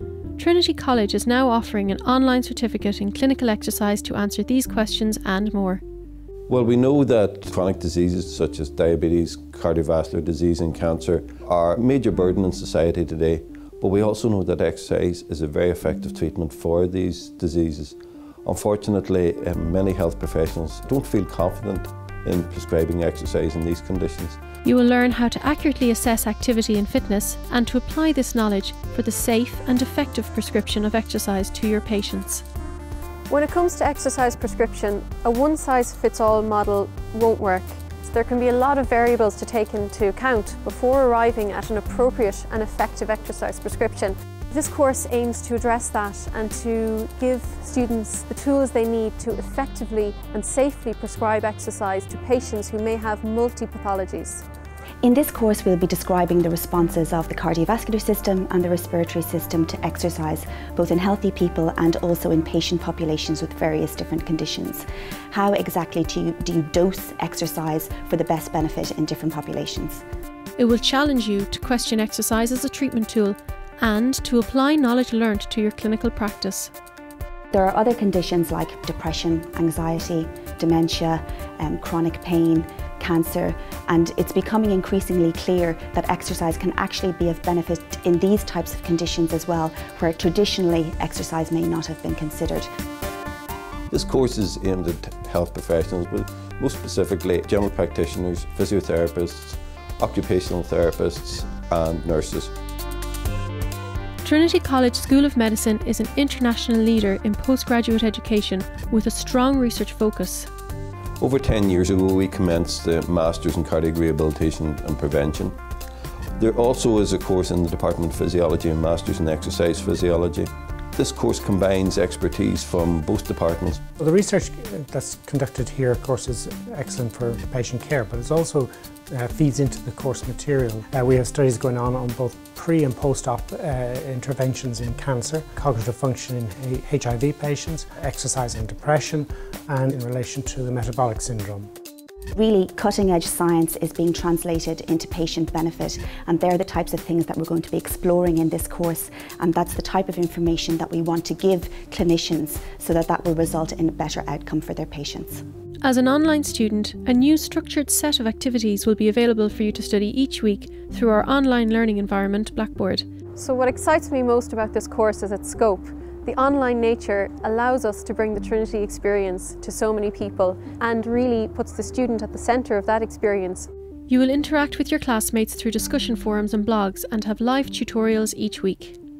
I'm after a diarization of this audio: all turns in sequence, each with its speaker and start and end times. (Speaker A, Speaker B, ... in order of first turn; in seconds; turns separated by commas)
Speaker A: 0.3-5.8, Speaker B: 6.5-24.4, Speaker A: 24.6-32.4, Speaker C: 33.3-54.4, Speaker D: 55.0-70.0, Speaker A: 70.6-76.7, Speaker D: 77.5-92.7, Speaker B: 93.9-102.5, Speaker A: 104.2-110.5, Speaker B: 111.2-115.5, Speaker B: 116.4-123.8, Speaker E: 124.0-141.7, Speaker D: 142.3-155.4, Speaker A: 155.8-163.4, Speaker A: 164.1-164.4, Speaker C: 164.4-165.8, Speaker C: 166.5-173.0, Speaker A: 174.1-179.0